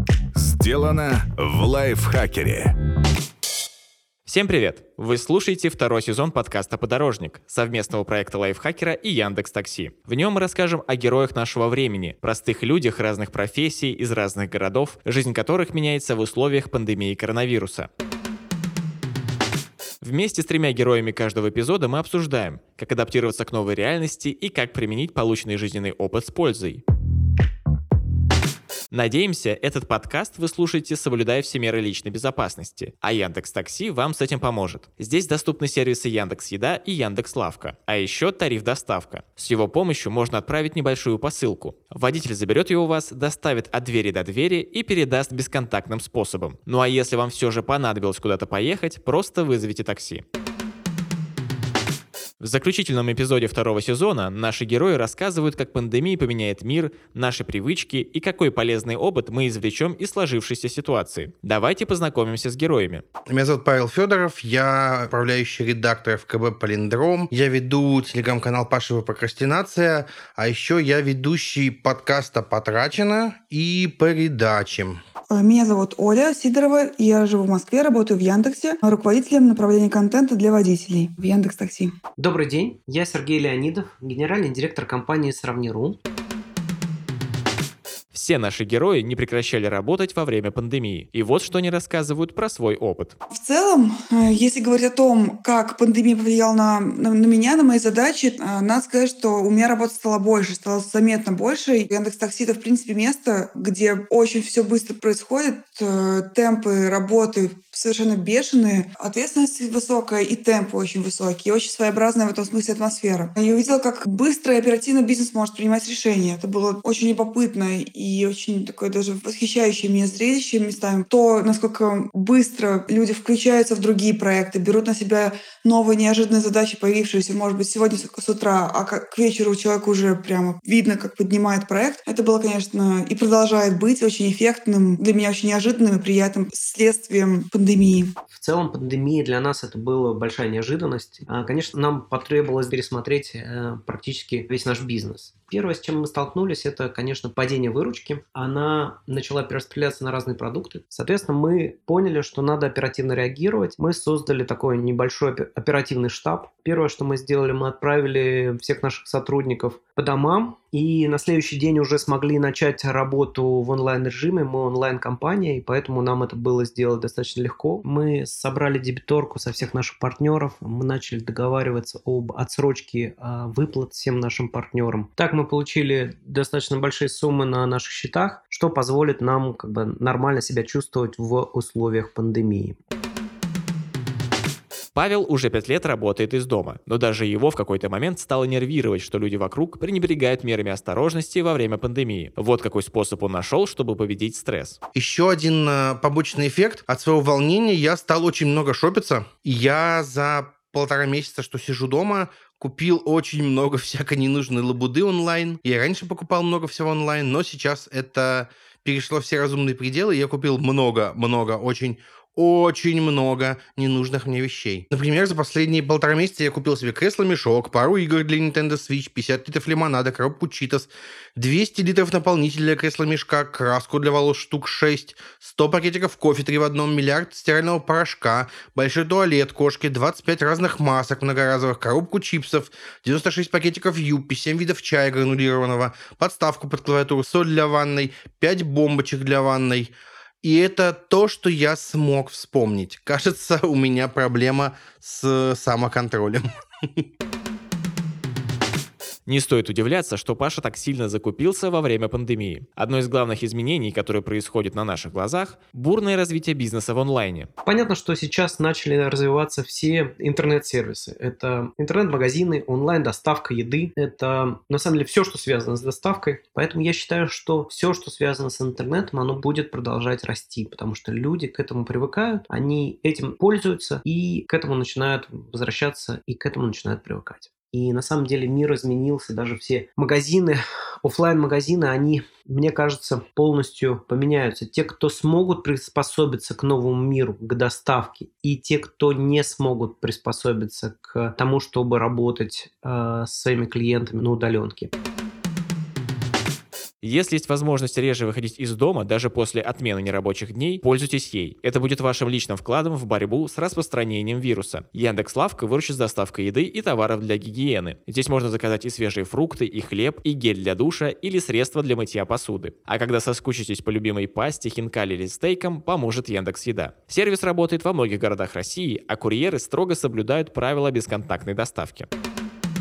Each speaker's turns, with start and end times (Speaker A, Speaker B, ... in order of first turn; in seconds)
Speaker A: 0.4-2.7
Speaker B: 4.3-17.9, 20.0-26.8, 28.9-50.2, 52.4-63.0, 88.1-93.2, 184.9-194.8, 249.3-257.5, 297.0-322.1
Speaker C: 63.3-75.0, 194.9-247.1
Speaker D: 75.3-81.9, 93.3-138.1
Speaker E: 82.2-86.0, 138.3-182.8, 257.7-294.9